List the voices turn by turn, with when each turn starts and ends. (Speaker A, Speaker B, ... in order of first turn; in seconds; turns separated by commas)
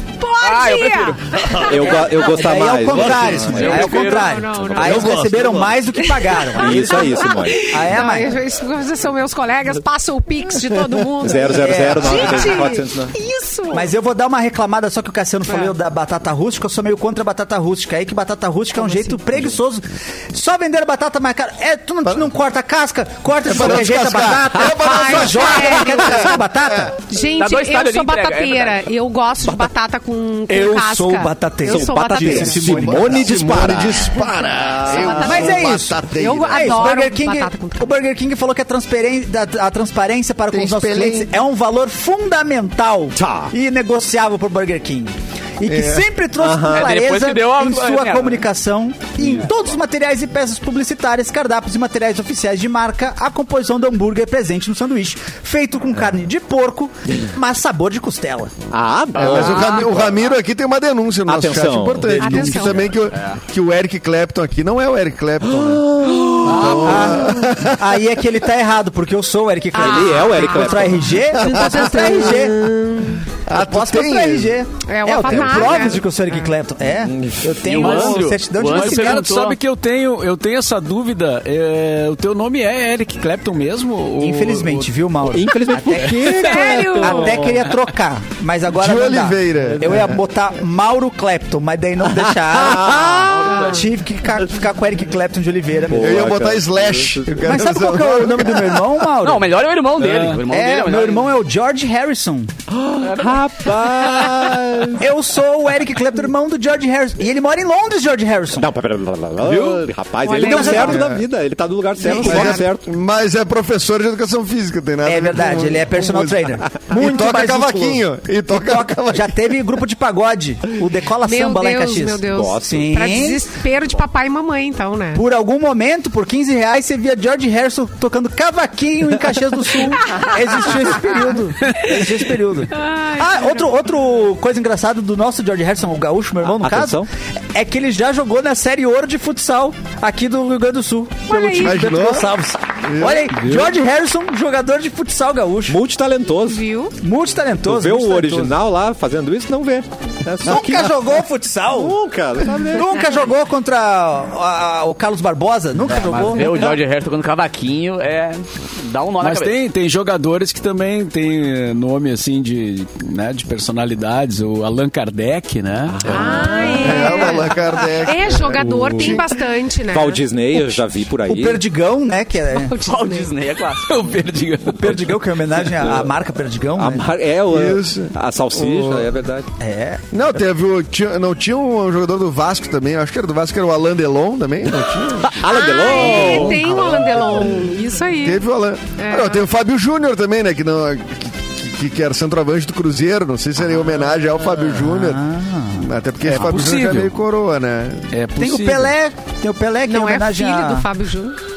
Speaker A: 0.2-1.7, Speaker B: 0.4-2.4, Speaker C: 1.6-5.6, Speaker D: 2.1-8.4, Speaker B: 2.9-4.4, Speaker A: 3.6-5.2, Speaker B: 4.9-5.5, Speaker A: 6.0-13.9, Speaker C: 6.5-7.8, Speaker C: 11.2-13.1, Speaker D: 11.5-12.7, Speaker D: 13.7-26.9, Speaker A: 15.5-15.7, Speaker A: 18.8-19.2, Speaker E: 22.0-22.3, Speaker E: 23.4-26.9, Speaker A: 24.7-26.4, Speaker A: 27.1-33.0, Speaker B: 27.4-28.8, Speaker C: 29.4-29.7, Speaker D: 30.5-33.5, Speaker C: 31.6-34.1, Speaker E: 32.4-36.9, Speaker A: 34.8-37.9, Speaker D: 35.0-58.5, Speaker E: 40.5-41.3, Speaker C: 43.1-43.5, Speaker E: 45.6-46.1, Speaker C: 46.4-46.9, Speaker B: 46.7-48.5, Speaker C: 58.7-60.1, Speaker B: 59.1-60.2, Speaker E: 59.1-65.8, Speaker C: 61.3-62.8, Speaker A: 62.1-62.9, Speaker B: 63.1-63.4, Speaker C: 65.5-67.4, Speaker E: 66.4-68.0, Speaker D: 66.7-72.7, Speaker A: 69.7-73.2, Speaker C: 69.7-71.2, Speaker E: 71.5-72.0, Speaker E: 73.5-74.6, Speaker D: 73.5-79.3, Speaker A: 74.8-76.5, Speaker C: 77.0-78.0, Speaker B: 77.6-79.6, Speaker F: 77.8-84.9, Speaker D: 84.2-96.3, Speaker C: 85.2-87.7, Speaker A: 86.2-87.4, Speaker E: 88.7-90.1, Speaker C: 92.0-93.6, Speaker B: 93.3-93.9, Speaker A: 93.5-93.8, Speaker C: 95.9-97.5, Speaker E: 95.9-98.9, Speaker D: 97.4-99.5, Speaker B: 99.2-101.3, Speaker F: 100.1-100.3, Speaker D: 100.4-102.5, Speaker C: 102.7-105.0, Speaker B: 103.0-103.4, Speaker D: 105.0-108.7, Speaker C: 108.5-112.8, Speaker A: 110.2-111.0, Speaker D: 110.3-111.0, Speaker E: 110.8-111.2, Speaker A: 112.0-112.6, Speaker E: 112.0-119.5, Speaker D: 115.0-123.4, Speaker A: 121.2-125.2, Speaker C: 122.3-122.9, Speaker D: 125.1-145.8, Speaker A: 130.1-131.2, Speaker A: 132.7-133.7, Speaker C: 136.4-137.1, Speaker A: 141.3-141.9, Speaker E: 141.6-142.3, Speaker E: 142.8-143.4, Speaker F: 143.4-143.7, Speaker C: 145.7-146.6, Speaker A: 146.4-146.9, Speaker D: 147.0-148.6, Speaker C: 147.6-153.1, Speaker D: 150.4-152.0, Speaker D: 152.6-156.7, Speaker B: 155.9-159.6, Speaker F: 159.2-166.3, Speaker C: 165.9-167.3, Speaker A: 166.1-170.2, Speaker E: 166.8-169.3, Speaker F: 168.7-169.1, Speaker C: 169.9-171.6, Speaker D: 170.5-172.8, Speaker A: 172.5-173.3, Speaker B: 172.8-174.1, Speaker F: 173.8-175.0, Speaker D: 174.6-177.1, Speaker C: 175.8-176.1, Speaker C: 176.7-179.5, Speaker E: 177.5-179.1, Speaker D: 179.6-180.0, Speaker E: 180.1-185.4, Speaker C: 185.2-186.9, Speaker A: 185.4-188.4, Speaker E: 186.8-187.6, Speaker E: 188.2-195.2, Speaker A: 189.0-189.4, Speaker D: 194.7-195.9, Speaker E: 195.8-198.1, Speaker F: 196.3-197.1, Speaker F: 198.1-198.9, Speaker D: 198.3-200.9, Speaker A: 199.8-201.4